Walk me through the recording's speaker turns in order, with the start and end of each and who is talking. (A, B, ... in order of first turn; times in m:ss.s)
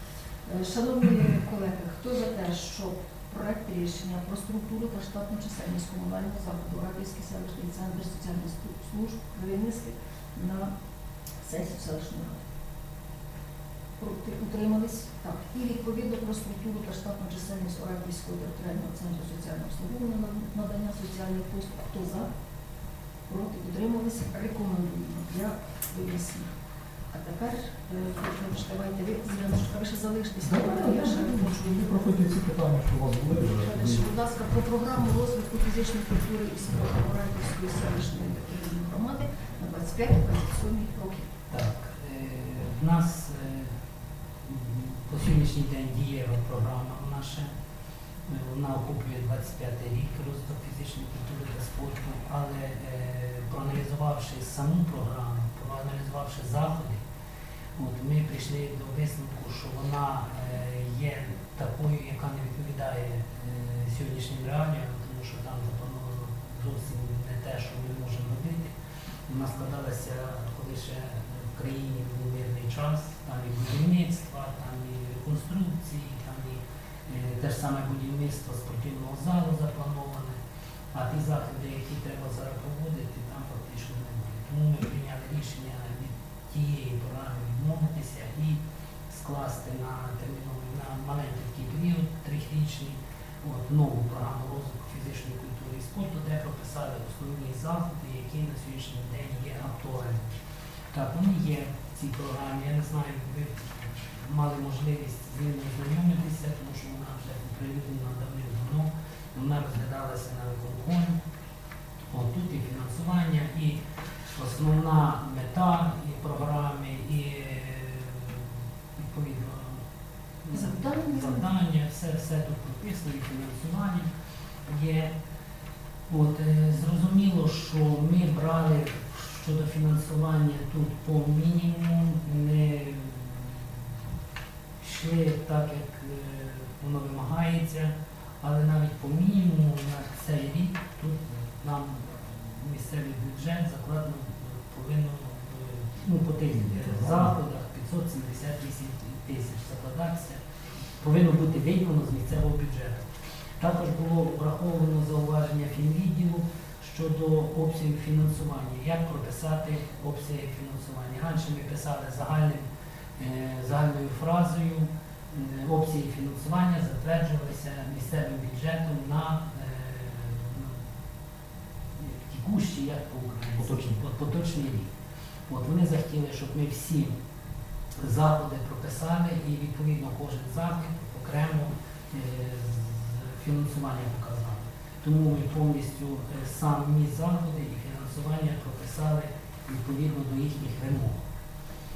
0:00.4-0:10.7 A
0:11.4-0:12.4 A
0:14.0-0:22.3 A
0:23.3-0:26.5 A
0:27.1-0:31.9 A
0:30.4-0:34.1 B
0:33.6-0:41.3 A
0:41.5-0:43.7 C
0:44.4-0:47.5 C
0:48.2-0:57.0 C
0:57.8-1:08.7 C
1:09.3-1:20.4 C
1:20.9-1:40.3 C
1:40.9-1:51.2 C
1:52.1-1:53.8 C
1:54.3-1:59.8 C
2:00.4-2:04.1 C
2:00.5-2:01.5 A
2:04.6-2:05.1 C
2:06.1-2:13.7 C
2:14.8-2:30.4 C
2:26.5-2:27.4 B
2:31.0-2:33.0 C
2:33.6-2:42.7 C
2:43.2-2:50.8 C
2:52.0-2:54.9 C
2:53.6-2:54.0 B
2:55.5-2:57.1 C
2:58.0-3:11.2 C